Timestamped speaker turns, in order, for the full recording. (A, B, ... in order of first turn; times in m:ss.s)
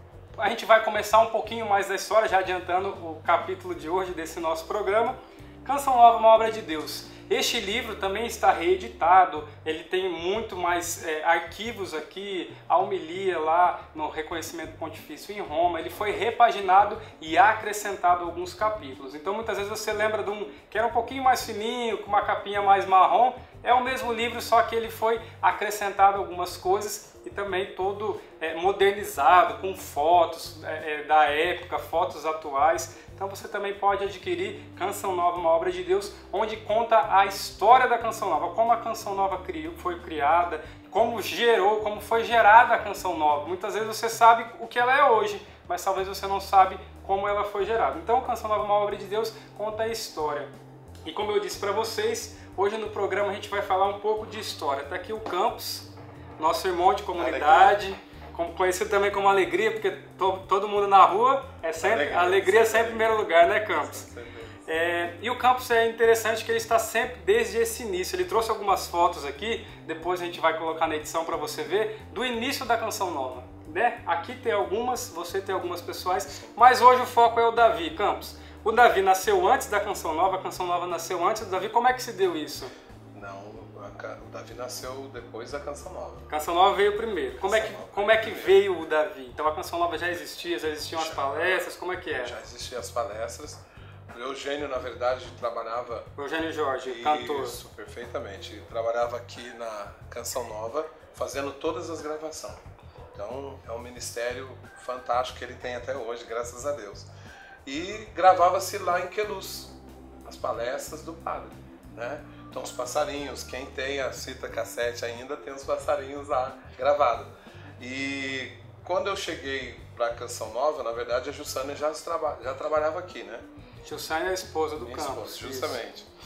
0:00.4-0:50.5 A
0:51.0-1:04.1 A
0:57.2-0:57.8 B
1:01.8-1:04.6 B
1:04.6-1:22.7 A
1:23.1-1:26.3 B
1:26.3-1:32.4 A
1:27.4-1:28.6 B
1:31.0-1:31.6 B
1:32.2-1:36.1 B
1:36.2-1:37.6 A
1:36.8-1:42.6 B
1:43.1-1:47.1 B
1:47.6-1:49.7 B
1:50.2-2:03.4 B
2:03.8-2:05.8 A
2:04.8-2:06.1 B